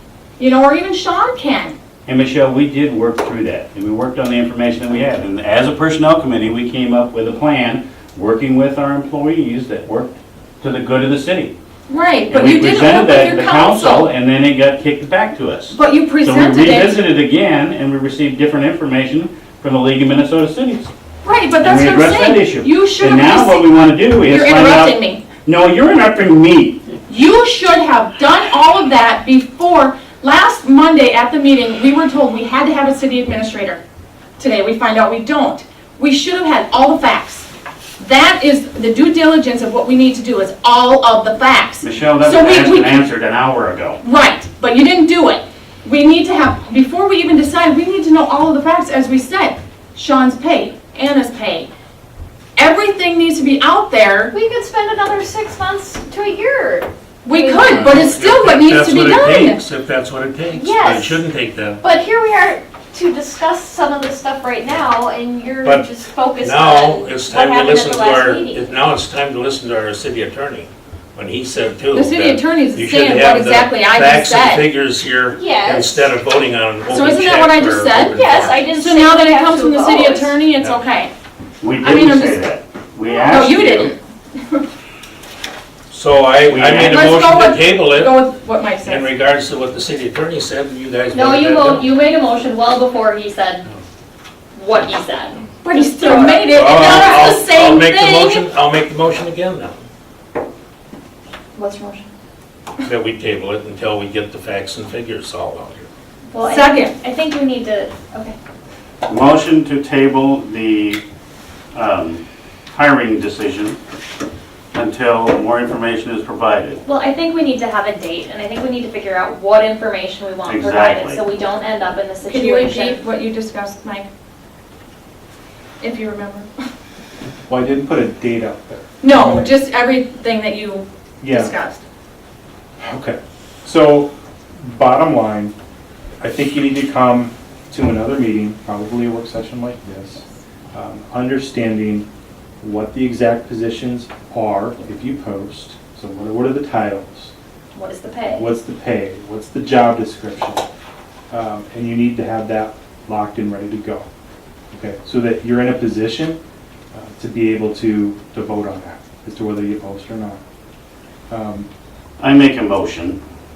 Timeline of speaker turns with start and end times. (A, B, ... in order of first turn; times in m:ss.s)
0:00.4-0:01.8 A
0:02.0-0:11.5 B
0:11.9-0:14.1 A
0:12.3-0:20.9 B
0:15.7-0:17.0 A
0:21.2-0:23.7 A
0:21.6-0:26.8 B
0:24.2-0:25.2 A
0:27.1-0:33.8 A
0:34.4-0:43.0 A
0:41.8-0:44.0 B
0:44.0-0:51.7 A
0:52.6-0:54.3 A
0:54.3-0:57.9 C
0:57.2-0:59.6 A
0:57.7-1:01.8 D
1:00.5-1:01.2 C
1:01.8-1:08.6 C
1:05.6-1:18.7 D
1:11.9-1:14.7 A
1:15.3-1:16.1 C
1:16.9-1:21.1 A
1:18.1-1:20.4 C
1:21.6-1:23.9 B
1:21.8-1:22.4 A
1:23.0-1:24.6 A
1:25.9-1:28.3 D
1:26.5-1:27.2 B
1:26.8-1:29.1 A
1:28.8-1:31.9 D
1:31.1-1:33.7 E
1:34.5-1:37.4 E
1:35.6-1:38.4 A
1:36.5-1:39.8 D
1:41.5-1:42.1 A
1:42.8-1:45.9 D
1:46.3-1:48.3 E
1:46.4-1:46.9 A
1:49.1-1:51.0 B
1:51.7-1:53.8 B
1:54.7-1:56.8 B
1:56.8-2:03.0 E
2:00.4-2:01.2 B
2:02.3-2:04.1 A
2:05.8-2:06.5 A
2:07.5-2:09.5 F
2:09.0-2:11.8 A
2:11.2-2:11.5 F
2:12.8-2:15.5 F
2:16.2-2:22.1 F
2:22.6-2:27.3 F
2:27.7-2:28.5 E
2:28.3-2:30.6 F
2:31.3-2:34.1 F
2:34.7-2:36.4 F
2:36.9-2:40.4 F
2:41.3-2:41.7 F
2:42.2-2:43.2 B